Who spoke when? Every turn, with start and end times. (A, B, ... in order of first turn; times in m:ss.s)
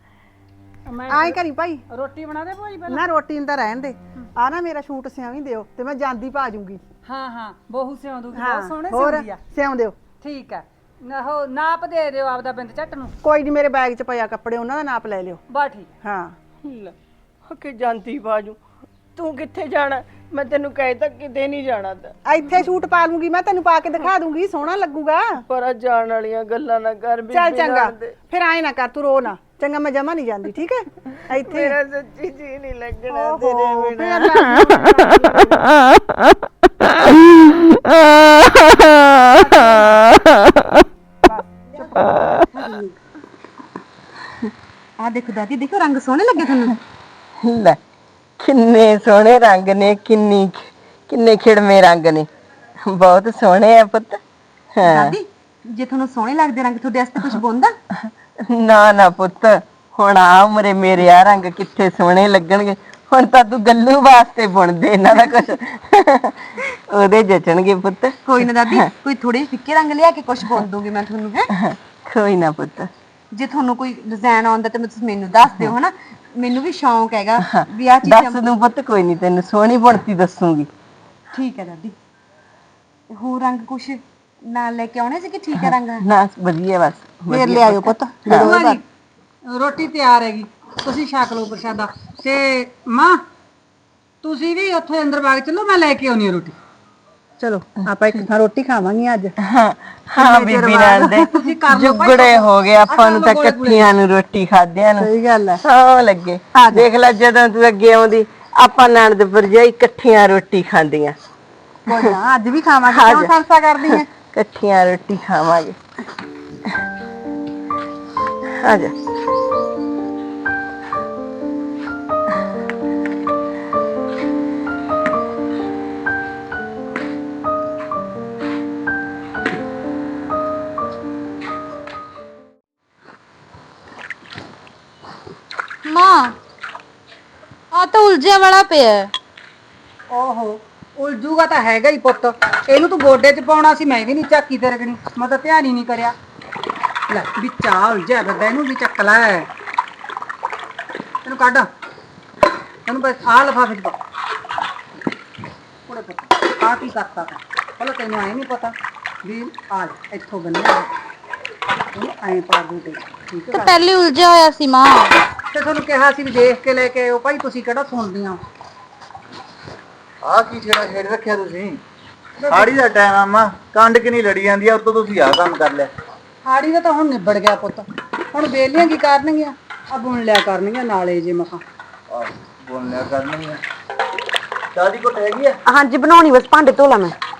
0:00.9-0:03.0 A
0:01.1-0:01.8 B
0:02.9-0:06.8 B
0:07.0-0:09.4 A
0:08.3-0:10.0 B
0:10.2-0:13.1 A
0:13.2-0:15.4 B
0:15.5-0:15.9 A
0:16.0-0:16.4 B
0:16.6-0:18.6 C
0:19.1-0:22.2 C
0:22.2-0:25.4 B
0:25.5-0:28.2 C
0:27.3-0:31.8 B
0:31.3-0:34.7 C
0:33.1-0:35.6 B
0:39.4-0:40.0 B
0:39.4-0:40.2 C
0:41.2-0:42.1 B
0:45.0-0:46.8 D
0:47.4-0:47.8 C
0:48.4-0:52.3 C
0:52.8-0:54.2 C
0:54.8-0:55.2 C
0:54.8-0:57.8 D
0:58.4-1:08.9 C
1:08.3-1:11.5 D
1:11.6-1:12.9 C
1:13.3-1:18.4 D
1:17.4-1:20.7 C
1:21.3-1:22.0 D
1:23.1-1:26.0 D
1:25.6-1:28.6 C
1:27.3-1:28.8 B
1:28.3-1:28.8 A
1:29.5-1:33.2 A
1:34.2-1:36.6 A
1:37.4-1:39.3 B
1:39.4-1:45.1 C
1:40.2-1:41.3 B
1:41.3-1:43.9 A
1:45.0-1:45.6 B
1:45.6-1:51.2 C
1:46.5-1:46.9 B
1:51.9-1:54.1 B
1:52.9-1:53.3 C
1:53.9-1:55.8 C
1:58.4-1:59.0 C
2:15.8-2:16.3 E
2:17.7-2:19.1 E
2:20.1-2:26.1 A
2:27.1-2:29.5 A
2:31.2-2:31.7 A
2:32.9-2:34.0 A
2:35.9-2:38.7 A
2:39.2-2:40.9 A
2:41.9-2:43.7 A
2:43.5-2:45.1 E
2:45.5-2:48.4 A
2:50.2-2:51.8 F
2:52.4-2:52.7 A
2:52.5-2:55.9 F
2:56.4-3:01.6 A
3:02.1-3:03.6 F
3:04.7-3:05.6 F
3:05.6-3:07.1 D